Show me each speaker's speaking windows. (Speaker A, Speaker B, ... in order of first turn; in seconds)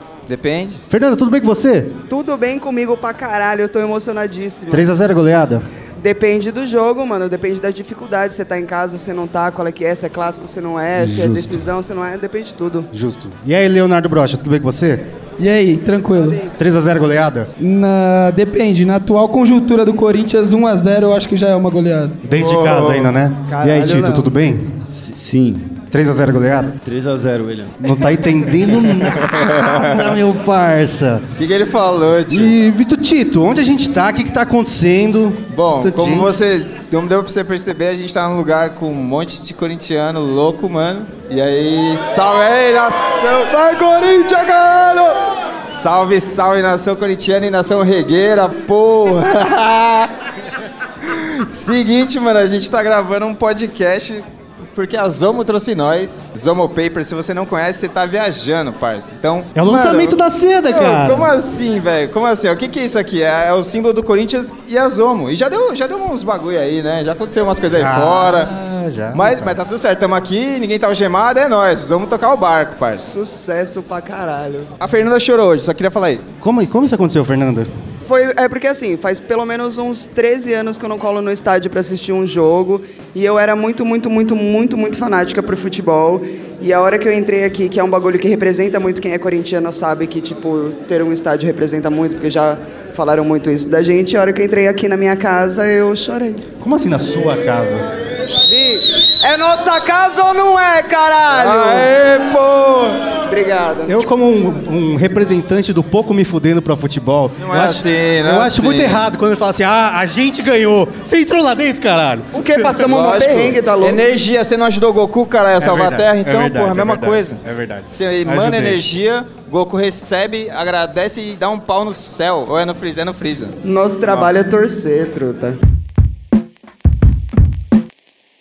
Speaker A: 0.3-0.8, 28.9-30.1, 31.4-32.5, 35.5-43.5, 45.7-50.1, 51.1-54.2, 54.8-60.2, 60.7-68.5, 69.1-73.1, 74.8-76.2, 101.3-103.1, 107.4-109.0, 112.8-117.4, 117.9-123.5
Speaker B: 0.9-1.9, 4.7-5.6, 10.9-11.6, 12.9-15.1, 16.6-17.5, 22.2-24.7, 25.9-26.8, 27.8-31.2, 32.3-36.3, 59.5-61.3, 67.7-69.6, 76.4-77.7, 96.6-97.9, 103.9-112.8, 115.6-118.9
Speaker C: 2.1-4.9, 6.0-12.9, 43.5-45.2, 73.0-74.7, 78.0-96.4, 98.4-101.9, 103.3-104.0, 112.3-114.0, 123.6-125.6
Speaker D: 15.4-16.4, 17.6-22.2
Speaker E: 22.4-24.3, 24.9-25.8, 26.8-27.8